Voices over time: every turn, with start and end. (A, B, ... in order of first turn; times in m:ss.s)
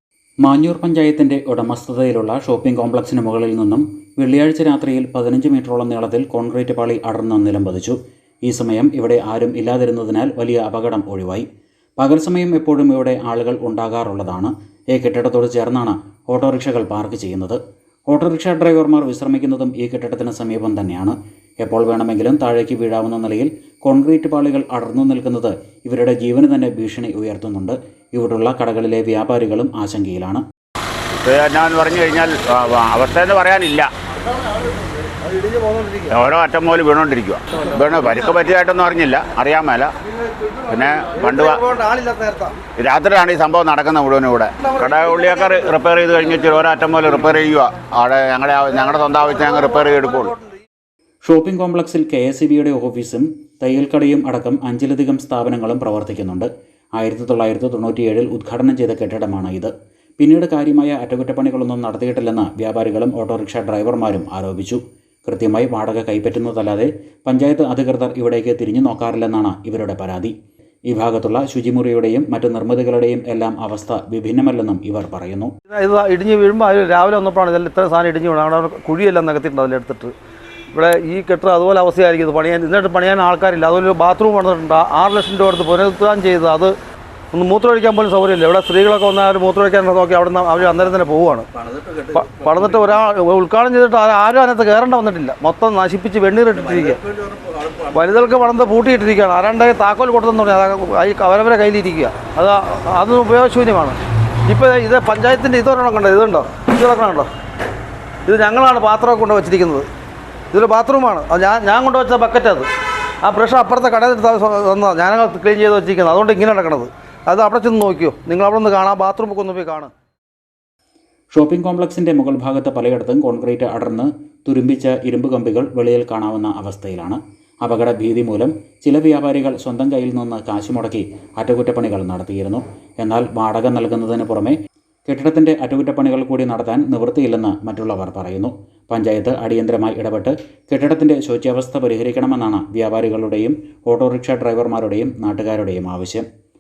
0:00.4-0:11.5 A
0:12.0-0:30.4 A
0:31.2-0:33.9 B
0:35.2-0:36.1 C
0:36.1-0:39.9 B
0:40.7-0:41.6 B
0:41.2-0:42.6 C
0:42.8-0:50.4 B
0:51.2-1:10.3 A
1:10.9-1:15.5 A
1:15.7-1:20.1 C
1:20.7-1:26.7 C
1:27.3-1:31.5 C
1:32.1-1:37.0 C
1:37.9-1:47.3 C
1:48.3-1:49.9 C
1:50.5-1:52.7 C
1:53.2-1:59.9 C
2:01.4-2:14.6 A
2:15.1-2:26.3 A